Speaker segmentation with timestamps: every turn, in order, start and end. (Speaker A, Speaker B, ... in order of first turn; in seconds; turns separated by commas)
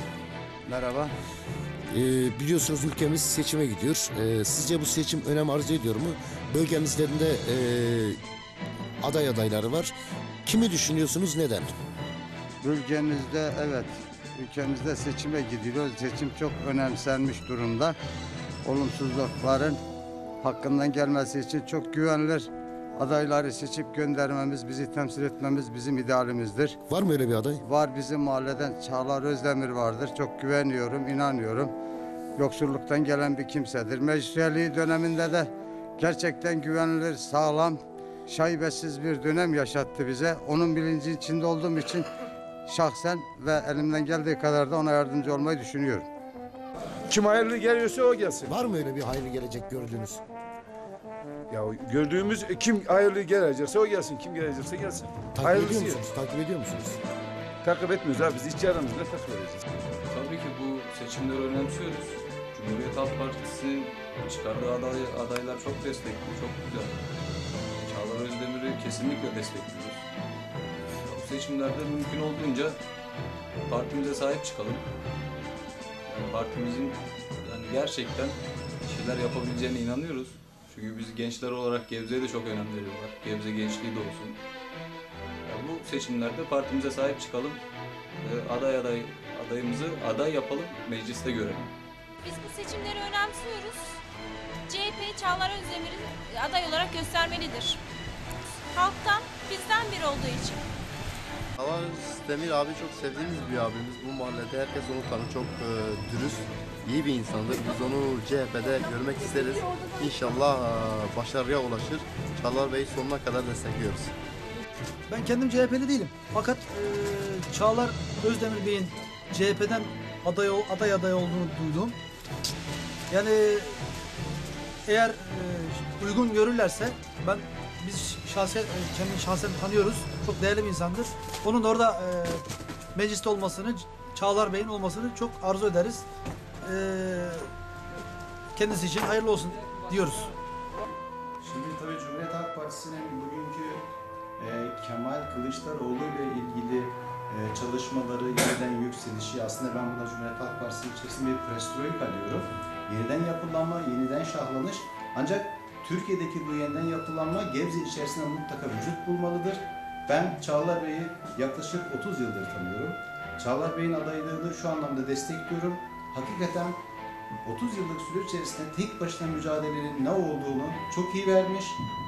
Speaker A: 0.7-1.1, Speaker B: 1.9-8.2, Speaker B: 9.0-9.9, Speaker B: 10.5-11.7, Speaker A: 12.6-18.0, Speaker A: 18.6-19.8, Speaker A: 20.4-26.8, Speaker B: 26.9-27.6, Speaker A: 27.6-31.7, Speaker A: 32.4-42.1, Speaker A: 42.7-46.1, Speaker C: 47.1-48.5, Speaker B: 48.5-50.2, Speaker C: 51.5-56.0, Speaker B: 55.4-57.0, Speaker C: 57.6-59.6, Speaker D: 60.1-67.0, Speaker D: 67.8-70.0, Speaker D: 70.9-72.8, Speaker D: 73.7-74.8, Speaker D: 76.1-84.4, Speaker D: 85.5-87.6, Speaker D: 88.2-91.7, Speaker E: 92.2-94.0, Speaker E: 94.7-97.8, Speaker E: 98.7-100.6, Speaker F: 101.6-114.1, Speaker G: 115.1-122.0, Speaker G: 123.1-123.8, Speaker G: 124.9-132.4, Speaker G: 132.9-136.1, Speaker G: 136.6-137.5, Speaker G: 138.6-140.3, Speaker H: 141.4-143.8, Speaker H: 144.4-166.8, Speaker H: 167.4-171.8